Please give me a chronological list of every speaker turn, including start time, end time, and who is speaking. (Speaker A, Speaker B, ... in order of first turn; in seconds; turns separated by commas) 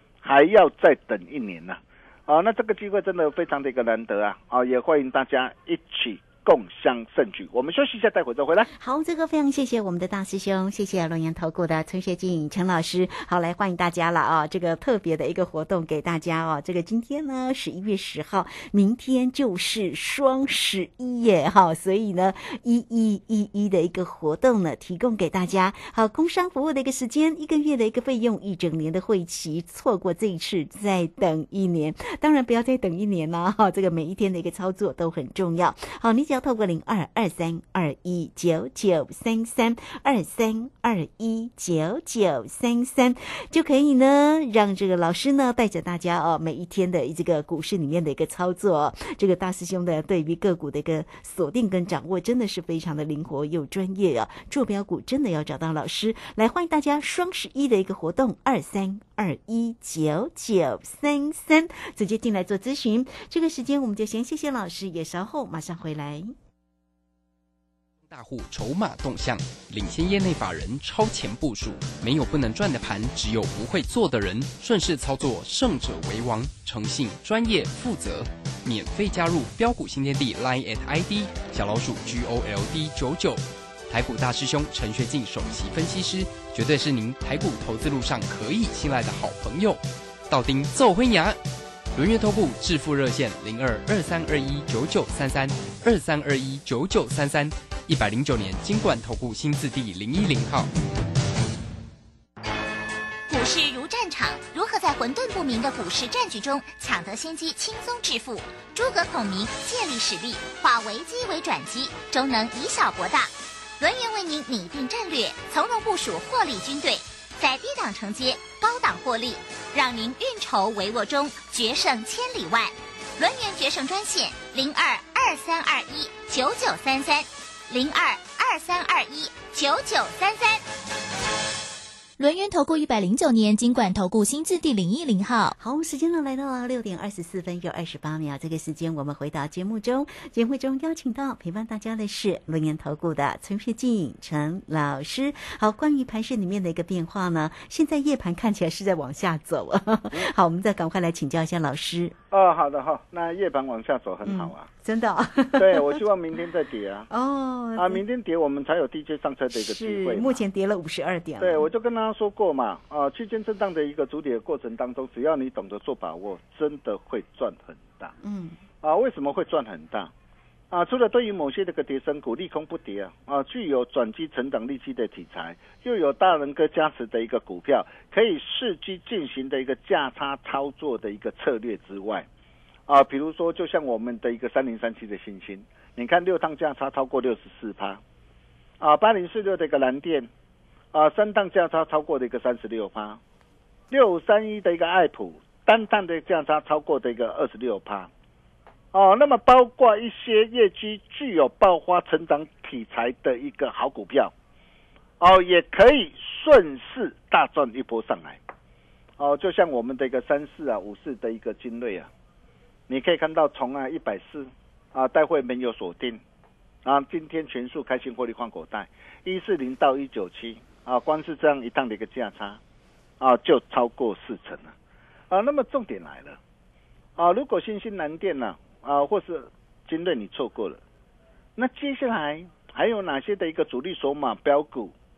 Speaker A: 0.2-8.7, Speaker B: 8.7-66.3, Speaker C: 68.1-91.4, Speaker C: 91.9-100.7, Speaker D: 103.3-130.6, Speaker E: 132.2-135.5, Speaker B: 135.6-152.2, Speaker A: 152.3-154.7, Speaker B: 154.2-156.0, Speaker A: 155.6-157.1, Speaker B: 157.1-158.0, Speaker A: 157.8-160.4, Speaker B: 159.5-161.7, Speaker A: 161.4-168.1, Speaker B: 168.2-168.6, Speaker A: 168.8-170.1, Speaker A: 170.7-182.3, Speaker A: 182.9-188.0, Speaker A: 188.8-190.3, Speaker A: 190.9-193.2, Speaker A: 193.9-198.1, Speaker A: 198.9-204.3, Speaker A: 205.2-208.4, Speaker A: 209.2-212.1, Speaker A: 212.9-216.2, Speaker A: 216.8-222.6, Speaker A: 223.2-224.7, Speaker A: 225.3-226.4, Speaker A: 227.2-230.8, Speaker A: 231.6-234.9